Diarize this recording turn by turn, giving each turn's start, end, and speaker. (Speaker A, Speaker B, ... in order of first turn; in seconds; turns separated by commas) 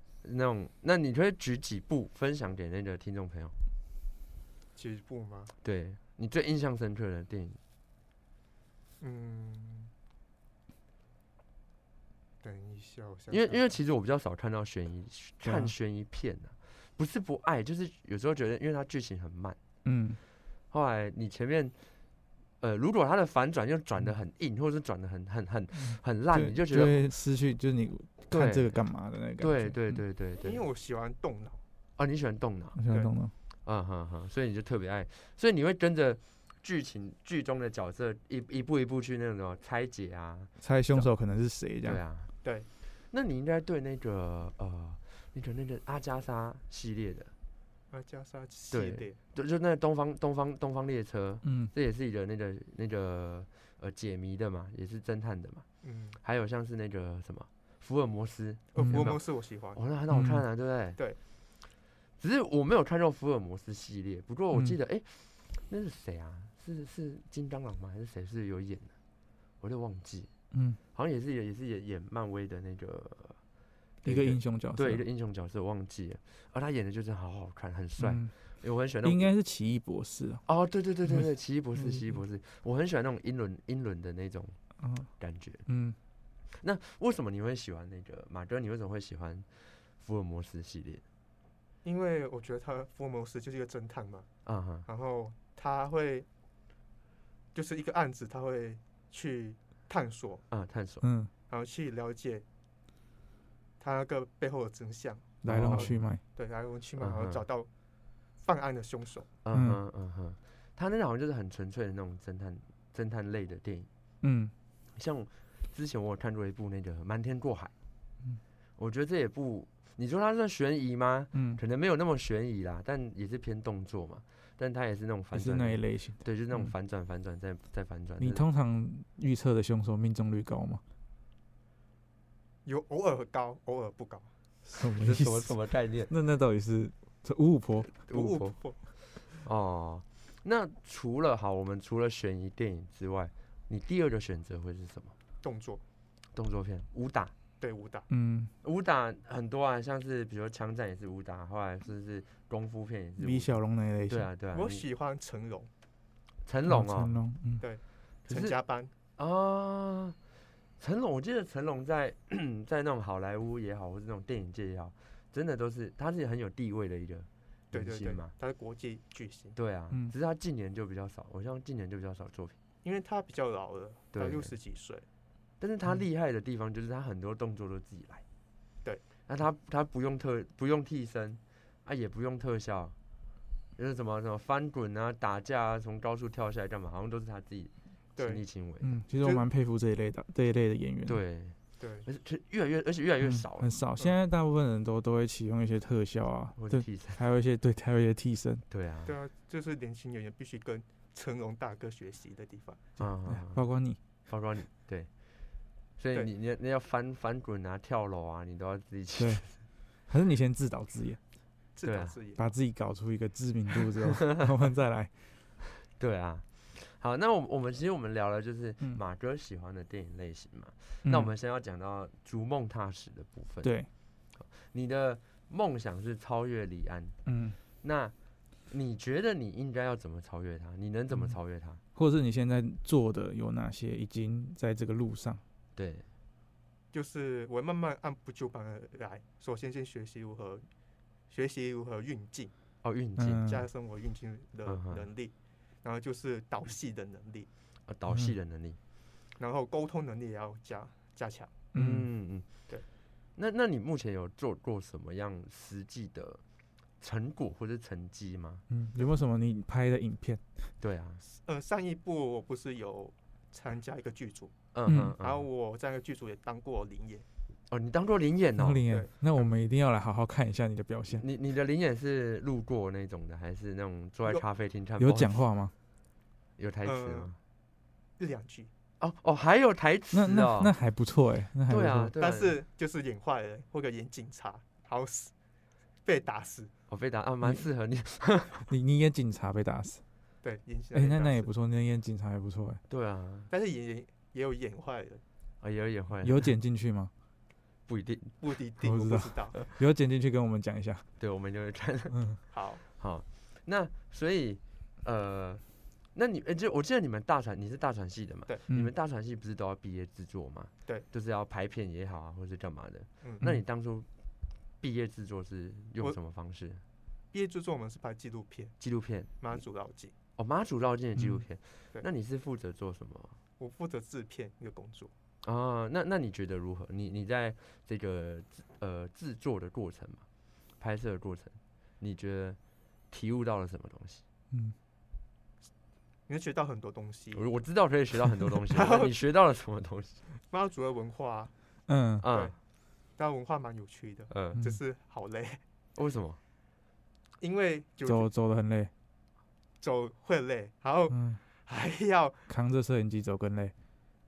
Speaker A: 0.2-3.6, Speaker B: 4.8-5.5, Speaker A: 5.6-7.6, Speaker B: 9.0-9.9, Speaker B: 12.4-13.6, Speaker A: 13.3-19.6, Speaker C: 15.4-15.7, Speaker C: 19.8-20.2, Speaker A: 20.7-21.8, Speaker A: 22.6-27.0, Speaker C: 25.8-30.0, Speaker A: 28.3-28.8, Speaker A: 29.4-30.6, Speaker B: 30.4-31.6, Speaker A: 32.0-32.8, Speaker C: 32.8-33.3, Speaker A: 33.6-41.1, Speaker C: 40.6-42.0, Speaker A: 41.8-42.3, Speaker B: 42.4-42.7, Speaker A: 43.1-47.3, Speaker B: 47.9-49.2, Speaker A: 48.7-55.6, Speaker C: 51.4-51.7, Speaker B: 55.8-56.2, Speaker A: 56.2-61.0, Speaker B: 58.7-59.8, Speaker C: 58.8-59.1, Speaker C: 60.1-60.4, Speaker A: 62.2-68.9, Speaker A: 69.6-70.3, Speaker C: 70.5-70.8, Speaker A: 70.9-73.4, Speaker C: 74.0-75.0, Speaker A: 74.0-79.3, Speaker C: 78.0-78.3, Speaker C: 79.0-80.4, Speaker A: 80.5-84.6, Speaker C: 81.8-82.1, Speaker C: 84.8-85.1, Speaker A: 85.2-85.7, Speaker C: 85.7-86.0, Speaker A: 86.5-91.0, Speaker B: 91.8-94.3, Speaker A: 94.5-94.9, Speaker B: 94.9-96.3, Speaker B: 97.5-100.5, Speaker A: 100.5-101.1, Speaker C: 101.0-101.3, Speaker B: 101.5-102.4, Speaker B: 103.8-107.7, Speaker C: 105.4-106.2, Speaker A: 105.5-105.9, Speaker A: 107.0-107.4, Speaker B: 108.4-109.3, Speaker A: 109.4-113.9, Speaker C: 109.5-109.8, Speaker C: 114.2-114.5, Speaker A: 115.0-117.7, Speaker A: 118.8-128.4, Speaker C: 121.3-121.6, Speaker C: 125.3-126.7, Speaker C: 128.2-130.8, Speaker B: 132.7-134.3, Speaker C: 134.7-135.5, Speaker A: 135.0-136.1, Speaker C: 136.1-137.9, Speaker B: 138.1-138.8, Speaker A: 138.1-138.6, Speaker A: 139.3-145.2, Speaker B: 145.4-145.8, Speaker A: 146.3-147.3, Speaker B: 147.6-148.1, Speaker C: 148.1-148.5, Speaker A: 148.6-153.5, Speaker C: 153.2-154.3, Speaker A: 154.1-154.8, Speaker B: 154.5-155.7, Speaker A: 156.4-157.2, Speaker C: 156.7-157.6, Speaker B: 157.6-158.9, Speaker A: 158.3-158.6, Speaker A: 159.2-160.2, Speaker A: 160.8-168.3, Speaker B: 167.7-169.6, Speaker A: 169.6-172.6, Speaker B: 172.8-175.1, Speaker A: 174.1-174.5, Speaker A: 175.6-178.2, Speaker A: 179.3-183.0, Speaker A: 183.8-189.0, Speaker B: 188.2-188.4, Speaker C: 188.8-191.2, Speaker B: 189.2-189.4, Speaker A: 191.1-193.7, Speaker B: 191.8-192.1, Speaker C: 193.2-198.6, Speaker A: 196.6-197.2, Speaker A: 198.7-199.1, Speaker B: 199.1-202.9, Speaker A: 203.0-203.6, Speaker C: 203.3-204.0, Speaker A: 204.3-205.4, Speaker A: 206.0-209.5, Speaker C: 209.2-209.4, Speaker C: 210.1-211.2, Speaker B: 211.8-212.5, Speaker A: 211.8-212.2, Speaker C: 212.4-215.1, Speaker A: 215.9-223.7, Speaker C: 221.0-221.3, Speaker C: 223.6-223.9, Speaker A: 224.4-227.2, Speaker C: 227.3-227.6, Speaker A: 227.8-228.1, Speaker A: 228.7-231.8, Speaker C: 231.9-235.4, Speaker A: 235.8-236.1, Speaker B: 236.9-240.7, Speaker B: 241.3-242.5, Speaker A: 242.8-243.4, Speaker C: 243.2-243.7, Speaker B: 243.4-247.5, Speaker A: 244.7-245.1, Speaker A: 247.9-248.8, Speaker C: 248.1-248.3, Speaker B: 249.4-251.7, Speaker C: 251.7-252.1, Speaker A: 251.8-252.6, Speaker A: 253.3-256.4, Speaker A: 257.0-258.6, Speaker C: 258.7-260.4, Speaker A: 260.8-261.2, Speaker B: 261.3-264.6, Speaker A: 264.7-265.4, Speaker C: 264.9-265.1, Speaker B: 265.2-267.2, Speaker A: 267.7-268.8, Speaker C: 268.6-271.2, Speaker B: 268.9-269.5, Speaker A: 271.1-275.4, Speaker C: 275.0-275.7, Speaker A: 276.6-277.4, Speaker B: 276.8-277.3, Speaker B: 278.2-278.7, Speaker A: 279.0-280.7, Speaker C: 280.1-282.1, Speaker A: 281.7-282.6, Speaker B: 282.2-285.3, Speaker B: 286.1-286.7, Speaker A: 286.9-288.7, Speaker C: 288.7-290.0, Speaker B: 290.4-291.5, Speaker C: 290.9-292.8, Speaker A: 292.9-293.5, Speaker B: 293.5-295.2, Speaker A: 295.6-296.5, Speaker C: 296.2-297.1, Speaker A: 297.9-298.4, Speaker B: 298.4-299.6, Speaker C: 298.8-301.1, Speaker A: 301.2-302.2, Speaker C: 302.1-302.4, Speaker B: 302.5-302.8, Speaker A: 302.9-314.1, Speaker A: 314.8-316.8, Speaker B: 317.3-318.8, Speaker A: 318.8-319.4, Speaker B: 319.4-320.1, Speaker A: 320.4-323.4, Speaker C: 321.2-321.4, Speaker B: 323.6-325.1, Speaker A: 325.4-330.3, Speaker A: 330.8-332.6, Speaker A: 333.1-334.2, Speaker B: 336.3-337.4, Speaker A: 337.4-340.2, Speaker B: 338.7-339.1, Speaker B: 340.5-341.5, Speaker C: 341.9-342.2, Speaker A: 342.2-342.6, Speaker B: 342.3-342.6, Speaker B: 343.2-345.6, Speaker A: 344.3-344.6, Speaker A: 345.9-346.4, Speaker B: 347.4-348.3, Speaker C: 348.0-348.9, Speaker B: 349.8-352.5, Speaker C: 351.1-351.4, Speaker C: 352.5-353.7